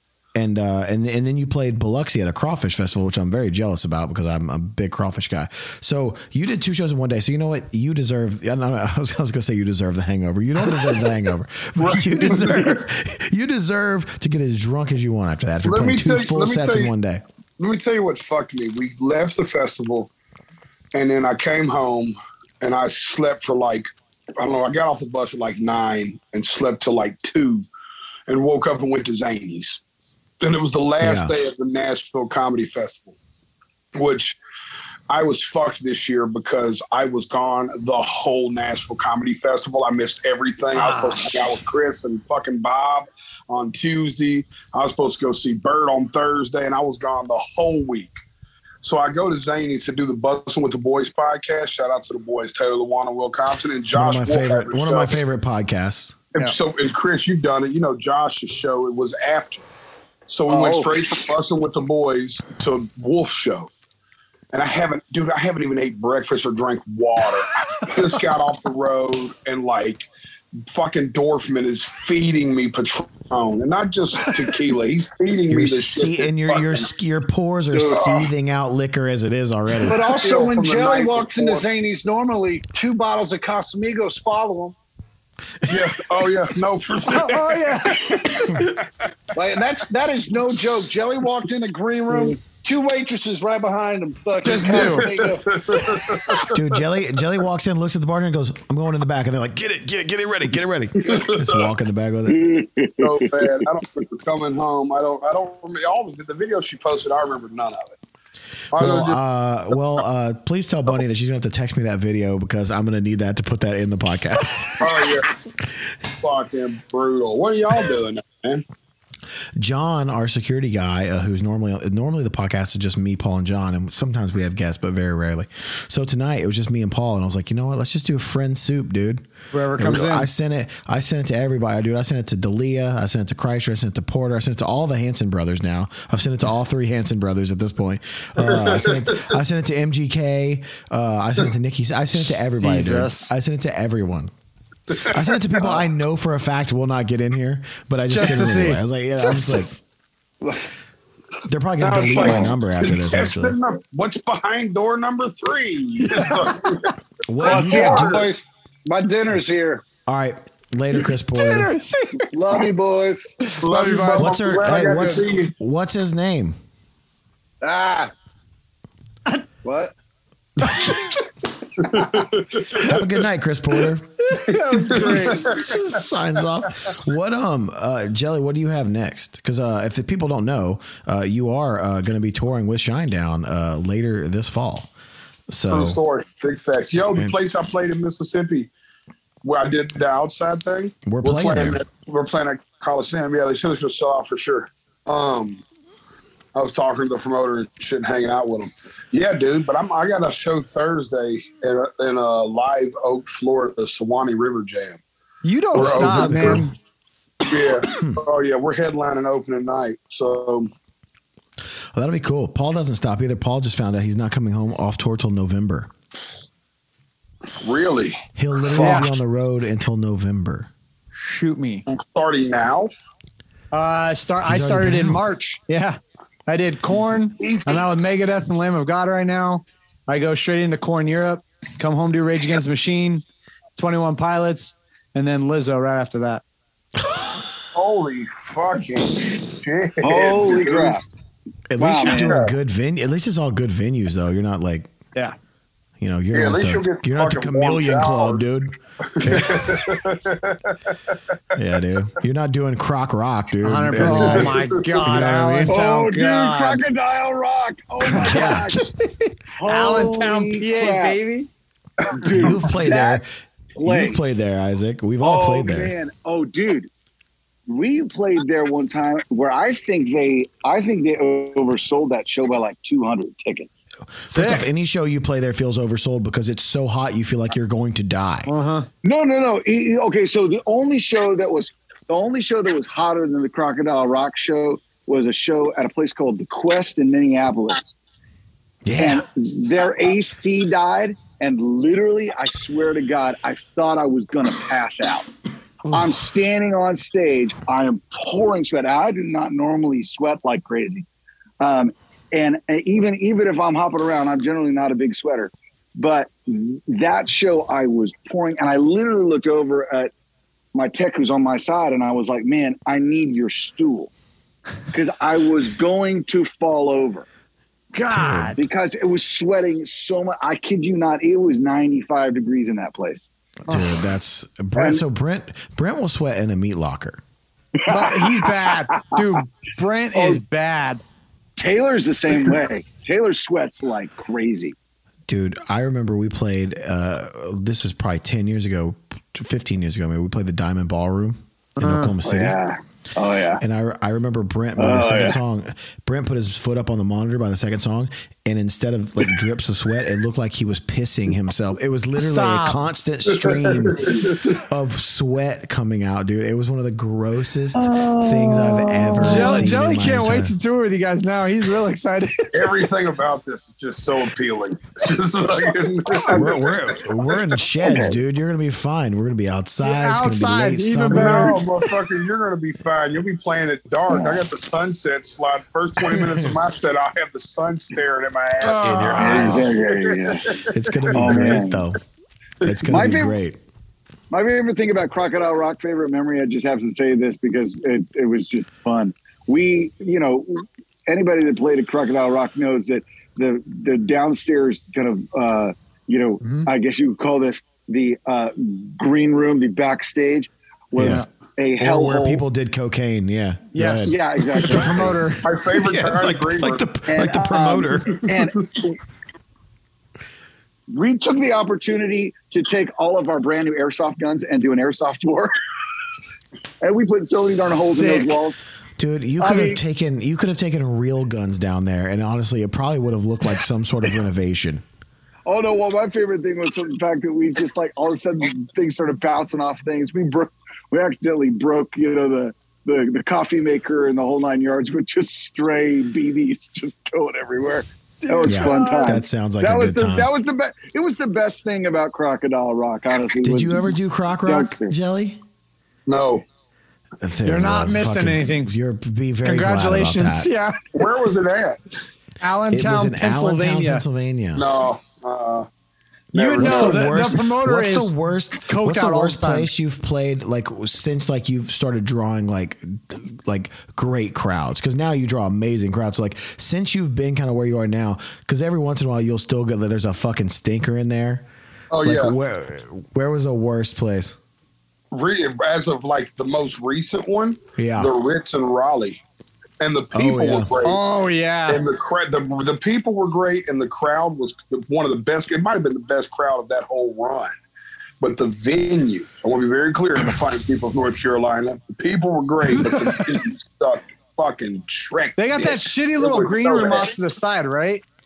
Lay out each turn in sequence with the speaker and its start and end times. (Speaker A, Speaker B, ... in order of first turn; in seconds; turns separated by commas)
Speaker A: 0.3-17.2, Speaker B: 11.8-12.8, Speaker B: 15.6-16.9, Speaker B: 17.6-20.1, Speaker B: 20.9-27.6, Speaker B: 28.3-29.8, Speaker B: 30.4-33.1, Speaker A: 31.0-31.3, Speaker B: 34.0-34.4, Speaker B: 35.1-48.2, Speaker C: 40.8-41.2, Speaker B: 48.8-55.2, Speaker A: 53.9-56.2, Speaker B: 56.3-59.6, Speaker B: 60.3-63.7, Speaker D: 60.5-61.1, Speaker B: 64.5-70.1, Speaker B: 70.7-76.9, Speaker A: 75.5-80.1, Speaker D: 77.7-78.0, Speaker B: 77.9-78.3, Speaker D: 79.8-84.7, Speaker B: 80.1-81.7, Speaker B: 85.7-88.8, Speaker C: 87.0-88.8, Speaker D: 89.3-95.9, Speaker E: 92.1-92.4, Speaker C: 94.4-95.1, Speaker B: 94.4-96.8, Speaker A: 96.5-102.4, Speaker B: 101.0-101.7, Speaker E: 102.3-103.6, Speaker B: 103.0-108.0, Speaker B: 108.7-109.2, Speaker A: 108.7-114.9, Speaker B: 114.8-115.3, Speaker B: 116.2-118.6, Speaker A: 119.6-129.2, Speaker C: 129.5-130.3, Speaker A: 129.8-144.3, Speaker B: 138.4-139.3, Speaker C: 142.6-143.3, Speaker B: 144.9-145.7, Speaker A: 145.1-149.7, Speaker C: 148.1-149.8, Speaker A: 151.5-153.5, Speaker B: 151.8-156.9, Speaker C: 156.0-156.8, Speaker A: 157.3-158.2, Speaker B: 157.4-158.3, Speaker D: 157.4-159.8, Speaker A: 160.1-161.7, Speaker C: 161.3-162.6, Speaker D: 162.3-163.3, Speaker C: 163.4-164.3, Speaker B: 163.6-165.5, Speaker A: 164.2-166.6, Speaker D: 167.6-168.1, Speaker D: 169.6-169.9, Speaker C: 170.6-171.1, Speaker B: 171.8-173.3, Speaker A: 172.9-174.1, Speaker C: 174.2-175.5, Speaker B: 174.7-176.0, Speaker A: 174.9-184.9, Speaker A: 185.5-186.0, Speaker B: 185.7-188.7, Speaker A: 187.0-187.4, Speaker B: 189.4-195.6, Speaker A: 191.0-191.8, Speaker B: 196.5-205.0, Speaker C: 205.4-206.7, Speaker A: 205.7-206.7, Speaker B: 205.7-206.6, Speaker B: 207.4-210.7, Speaker A: 211.9-215.9, Speaker B: 217.6-218.9, Speaker A: 218.3-220.7, Speaker C: 218.8-219.1, Speaker C: 221.2-221.8, Speaker B: 221.9-222.9, Speaker C: 223.7-233.2, Speaker A: 224.4-225.2, Speaker B: 227.3-227.9, Speaker C: 233.7-236.4, Speaker B: 237.7-241.0, Speaker E: 240.0-241.0, Speaker A: 241.7-244.9, Speaker E: 241.8-242.4, Speaker B: 242.1-242.5, Speaker A: 246.0-249.9, Speaker B: 246.3-248.4, Speaker B: 249.1-251.6, Speaker A: 251.5-255.8, Speaker C: 253.6-256.9, Speaker B: 254.0-255.2, Speaker E: 255.7-258.9, Speaker C: 258.0-261.5, Speaker A: 258.2-258.7, Speaker E: 259.6-261.2, Speaker E: 262.1-263.2, Speaker A: 262.3-263.3, Speaker E: 263.8-264.3, Speaker A: 263.8-265.9, Speaker E: 265.2-266.9, Speaker E: 267.7-273.7, Speaker A: 274.2-278.5, Speaker C: 274.3-274.6, Speaker C: 278.5-278.9, Speaker E: 279.0-287.8, Speaker A: 288.8-289.2, Speaker E: 288.9-295.3, Speaker A: 295.8-296.2, Speaker E: 295.9-301.1, Speaker E: 301.6-310.1, Speaker E: 310.7-314.1, Speaker E: 314.9-317.2, Speaker C: 317.9-318.6, Speaker A: 318.1-318.5, Speaker E: 318.6-323.2, Speaker A: 323.7-327.2, Speaker C: 327.9-331.0, Speaker E: 331.6-334.8, Speaker A: 335.3-342.6, Speaker C: 341.8-342.1, Speaker E: 342.2-343.6, Speaker A: 343.6-360.5, Speaker E: 344.8-345.4, Speaker C: 352.2-352.8, Speaker B: 353.3-354.4, Speaker C: 354.0-354.3, Speaker E: 357.8-359.7, Speaker C: 359.2-362.6, Speaker B: 362.5-367.6, Speaker A: 366.3-371.6, Speaker E: 367.8-368.2, Speaker C: 369.8-371.6, Speaker B: 371.1-381.6, Speaker E: 374.1-374.4, Speaker A: 376.1-376.4, Speaker C: 378.6-379.6, Speaker A: 378.6-379.7, Speaker E: 379.2-381.9, Speaker A: 380.7-382.0, Speaker A: 382.6-383.6, Speaker E: 382.9-383.4, Speaker E: 384.3-402.4, Speaker C: 396.4-396.7, Speaker A: 400.9-401.3, Speaker C: 401.0-401.2, Speaker A: 401.8-404.2, Speaker C: 403.7-405.4, Speaker E: 404.1-405.1, Speaker A: 404.7-405.1, Speaker B: 405.4-406.9, Speaker A: 405.7-408.2, Speaker E: 407.1-409.0, Speaker B: 408.1-408.7, Speaker E: 410.9-415.5, Speaker E: 416.8-418.6, Speaker C: 417.8-418.4, Speaker A: 419.0-424.8, Speaker C: 419.4-419.8, Speaker E: 425.4-444.9, Speaker C: 438.3-439.2, Speaker B: 438.3-438.9, Speaker A: 438.4-440.3, Speaker A: 443.4-445.4, Speaker B: 446.1-446.4, Speaker A: 447.2-450.5, Speaker C: 447.4-448.7, Speaker C: 449.4-450.8, Speaker B: 450.9-451.8, Speaker C: 452.4-454.0, Speaker A: 452.7-454.6, Speaker B: 454.5-455.7, Speaker B: 456.3-457.1, Speaker C: 456.3-459.7, Speaker A: 456.4-471.5, Speaker B: 471.9-472.3, Speaker A: 472.0-474.4, Speaker B: 475.1-479.2, Speaker A: 477.8-478.1, Speaker B: 479.8-481.0, Speaker A: 480.1-480.7, Speaker C: 480.8-481.8, Speaker B: 481.7-487.5, Speaker B: 488.2-497.1, Speaker C: 495.4-498.0